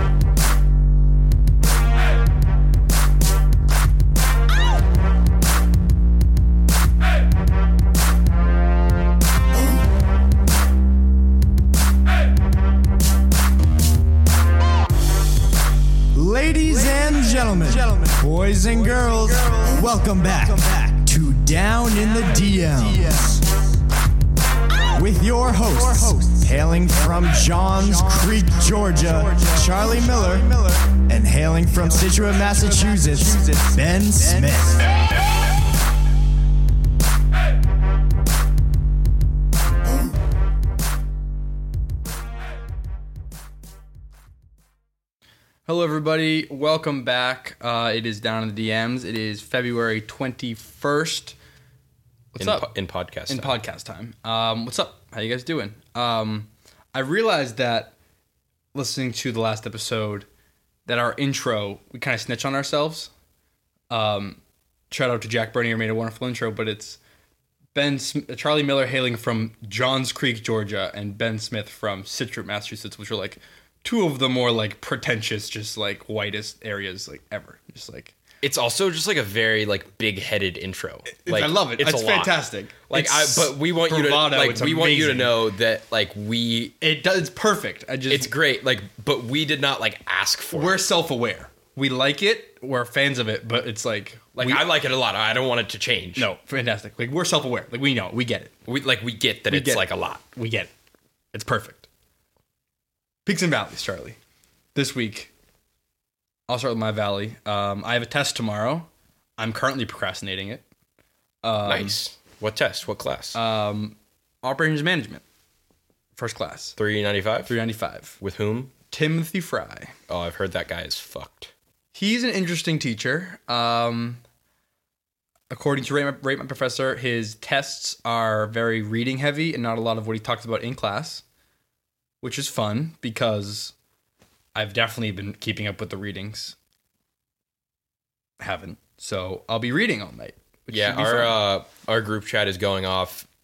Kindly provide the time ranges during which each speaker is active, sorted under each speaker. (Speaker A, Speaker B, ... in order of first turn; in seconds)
Speaker A: 16.1-23.4, 24.9-34.9
Speaker B: 45.6-51.4, 52.3-52.7, 53.3-57.9, 58.7-60.3, 60.9-63.1, 63.9-67.0, 67.7-78.2, 81.1-85.4, 86.8-88.3, 90.5-94.6, 96.2-98.5, 99.5-100.7, 101.3-101.8, 103.2-104.2, 104.7-105.3, 106.5-110.6, 111.4-112.0, 113.3-115.2, 116.1-116.8, 117.5-118.2, 118.9-119.9, 121.9-124.2, 125.5-131.2, 132.2-133.7, 134.5-136.6, 138.4-141.4
Speaker C: 52.4-53.5, 78.4-82.3, 82.9-86.7, 88.1-90.7, 94.3-96.2, 98.7-100.2, 111.7-113.4, 116.8-117.5, 118.2-118.7, 120.1-121.5, 140.7-143.3